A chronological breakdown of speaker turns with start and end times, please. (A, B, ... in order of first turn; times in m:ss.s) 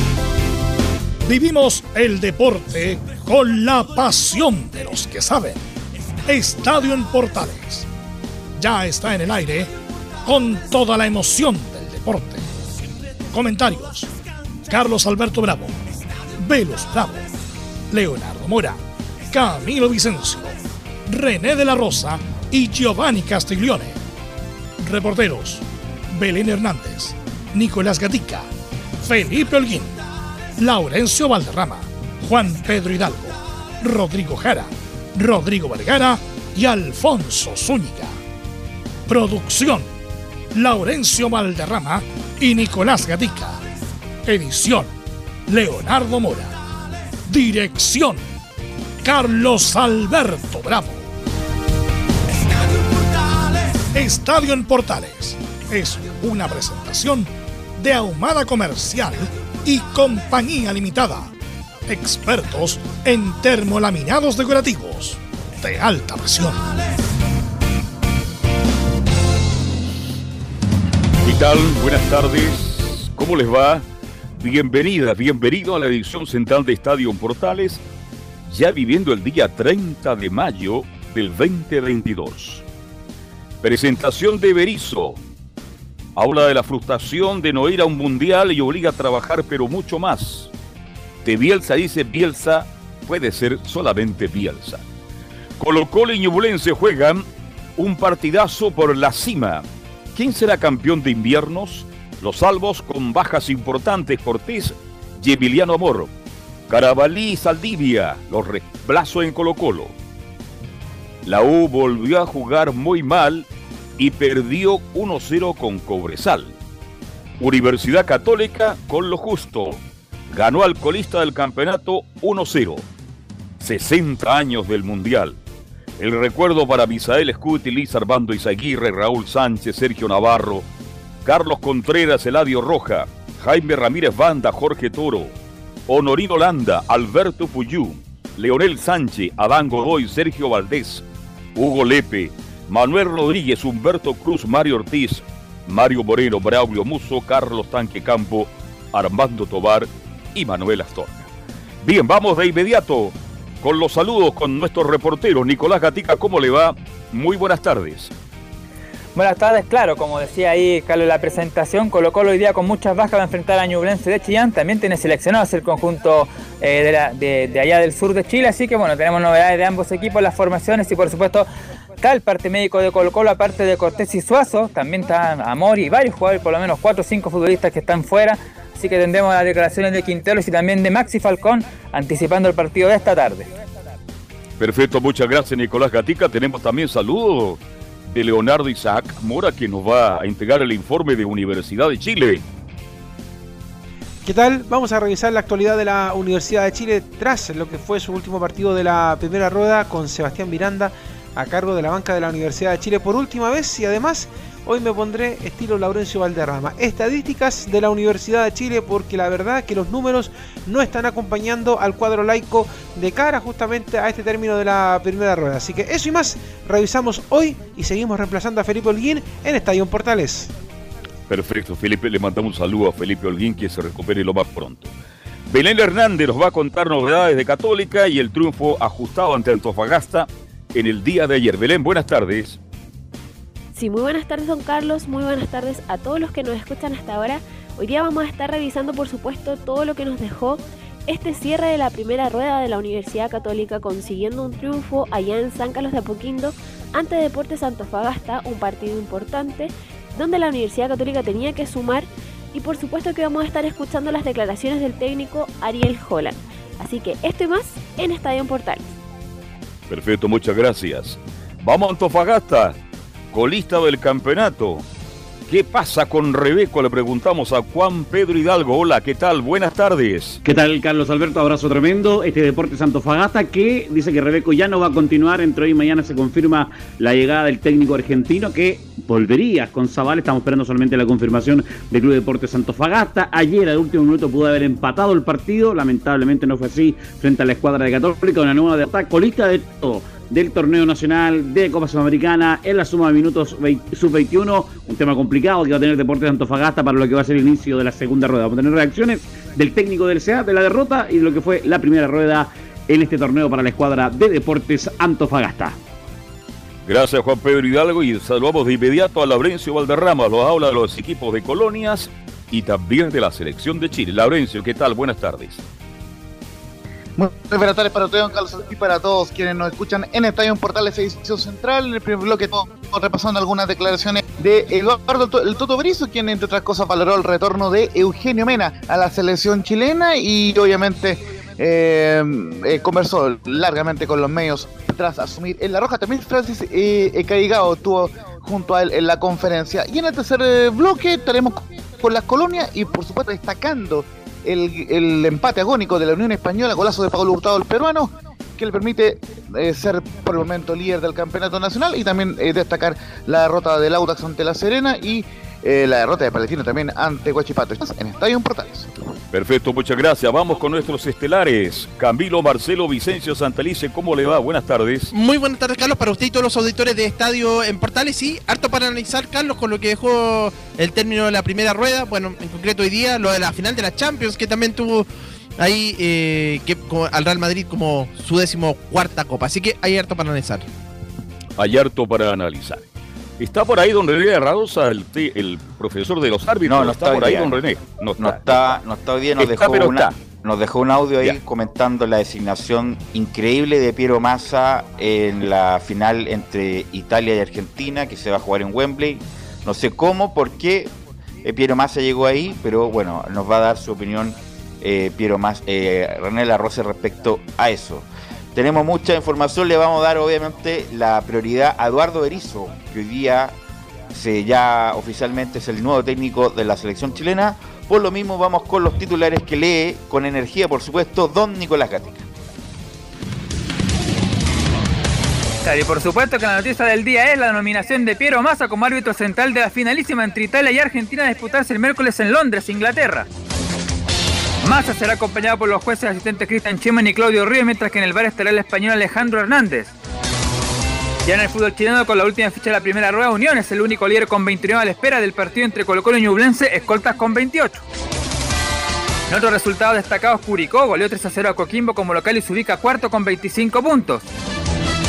0:01.2-0:05.6 A
0:06.2-0:07.9 A
0:08.6-0:09.7 A
0:10.2-0:12.5 A
0:13.3-0:14.1 A
0:14.7-0:17.2 A
0:17.9-0:18.8 A
0:19.3-0:24.0 A
0:24.8-0:28.5 A
0:29.0-0:30.0 A
0:30.6-0:38.2 A
0:39.1-0:39.9 A
0:40.5-0:43.6 A
0:44.2-0:44.9 A
0:45.5-0:46.6 A
0:47.2-0:48.2 A
0:49.0-0:51.1 A
0:53.8-1:01.3 A
1:01.9-1:06.6 A
1:11.2-1:13.8 B
1:14.4-1:17.8 B
1:18.4-1:22.6 B
1:23.6-1:25.2 B
1:26.2-1:30.5 B
1:31.2-1:34.8 B
1:35.6-1:37.2 B
1:37.8-1:46.1 B
1:46.7-1:49.9 B
1:51.2-1:53.5 B
1:54.0-1:56.5 B
1:57.4-1:59.8 B
2:00.3-2:02.8 B
2:03.6-2:05.4 B
2:06.0-2:10.7 B
2:11.2-2:15.3 B
2:15.9-2:21.0 B
2:21.6-2:31.3 B
2:31.8-2:38.1 B
2:39.1-2:51.5 C
2:52.0-3:03.5 C
3:04.6-3:12.4 B
3:14.2-3:40.5 D
3:41.3-3:44.9 B
3:45.5-3:52.6 B
3:53.7-4:18.9 E
4:19.9-4:22.8 B
4:23.3-4:24.8 B
4:25.5-4:30.4 B
4:30.4-5:05.8 F
5:06.8-5:15.6 B
5:17.2-5:58.9 G
5:59.3-6:05.1 B
6:05.1-6:20.6 H
6:21.6-6:22.8 B
6:23.4-6:28.8 B
6:26.6-6:27.6 I
6:28.2-6:40.9 I
6:29.4-6:30.1 B
6:41.4-6:53.6 I
6:54.1-7:02.3 I
7:05.6-7:13.3 C
7:14.6-7:19.9 C
7:21.2-7:27.8 C
7:29.3-7:34.2 C